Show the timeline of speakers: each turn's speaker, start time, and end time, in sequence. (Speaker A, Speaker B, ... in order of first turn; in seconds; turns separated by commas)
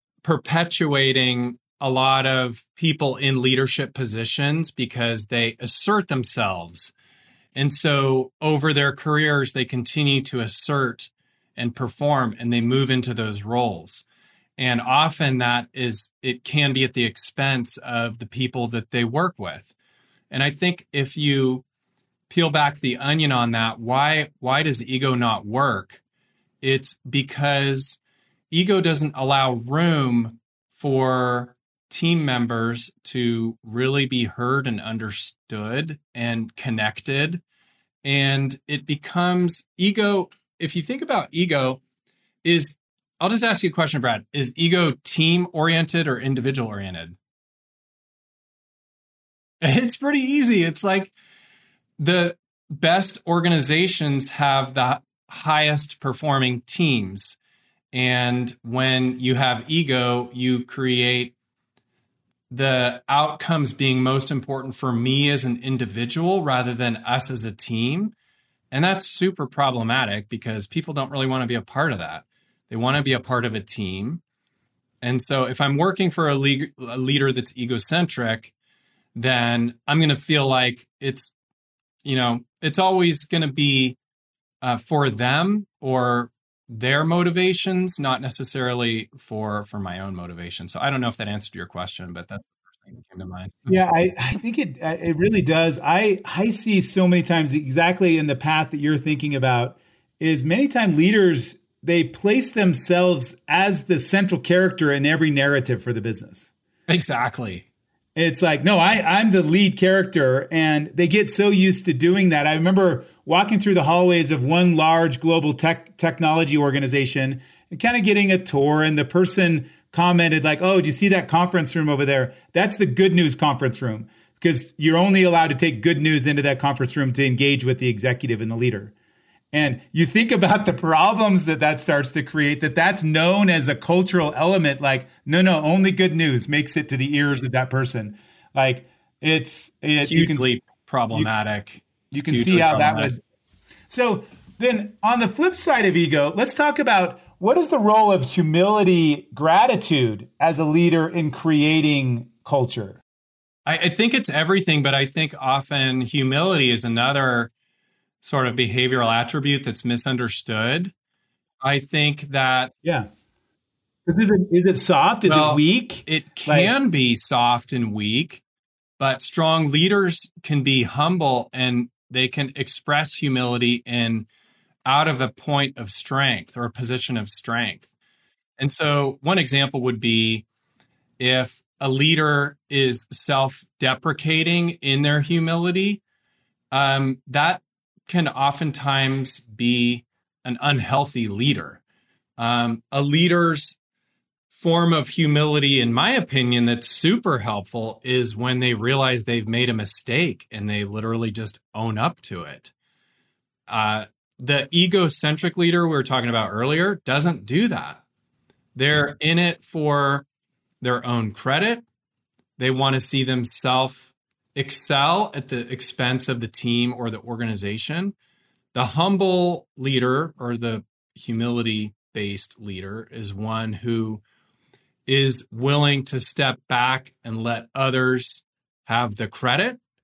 Speaker A: 0.2-6.9, Speaker A: 7.5-14.1, Speaker A: 14.6-19.7, Speaker A: 20.3-21.6, Speaker A: 22.3-26.0, Speaker A: 26.6-28.0, Speaker A: 28.5-37.4, Speaker A: 38.0-41.8, Speaker A: 42.4-47.1, Speaker A: 49.6-51.1, Speaker A: 52.0-57.4, Speaker A: 57.9-61.3, Speaker A: 62.5-68.1, Speaker A: 68.7-74.2, Speaker A: 75.0-78.5, Speaker A: 79.1-81.3, Speaker A: 82.0-84.0, Speaker A: 84.6-93.7, Speaker B: 93.7-106.5, Speaker A: 106.9-107.6, Speaker B: 108.2-128.9, Speaker B: 129.5-140.4, Speaker A: 140.0-143.1, Speaker B: 142.1-143.2, Speaker B: 143.9-153.0, Speaker A: 153.7-157.5, Speaker A: 158.2-160.9, Speaker A: 161.6-162.7, Speaker B: 164.1-166.7, Speaker A: 165.2-168.4, Speaker A: 169.0-174.3, Speaker A: 174.8-177.9, Speaker A: 178.6-180.4, Speaker A: 181.2-186.0, Speaker A: 186.7-191.8, Speaker A: 192.4-193.8, Speaker A: 194.5-202.7, Speaker A: 203.7-208.0, Speaker A: 208.7-210.2, Speaker A: 210.8-211.8, Speaker A: 212.6-218.1, Speaker A: 218.7-224.2, Speaker A: 225.1-229.8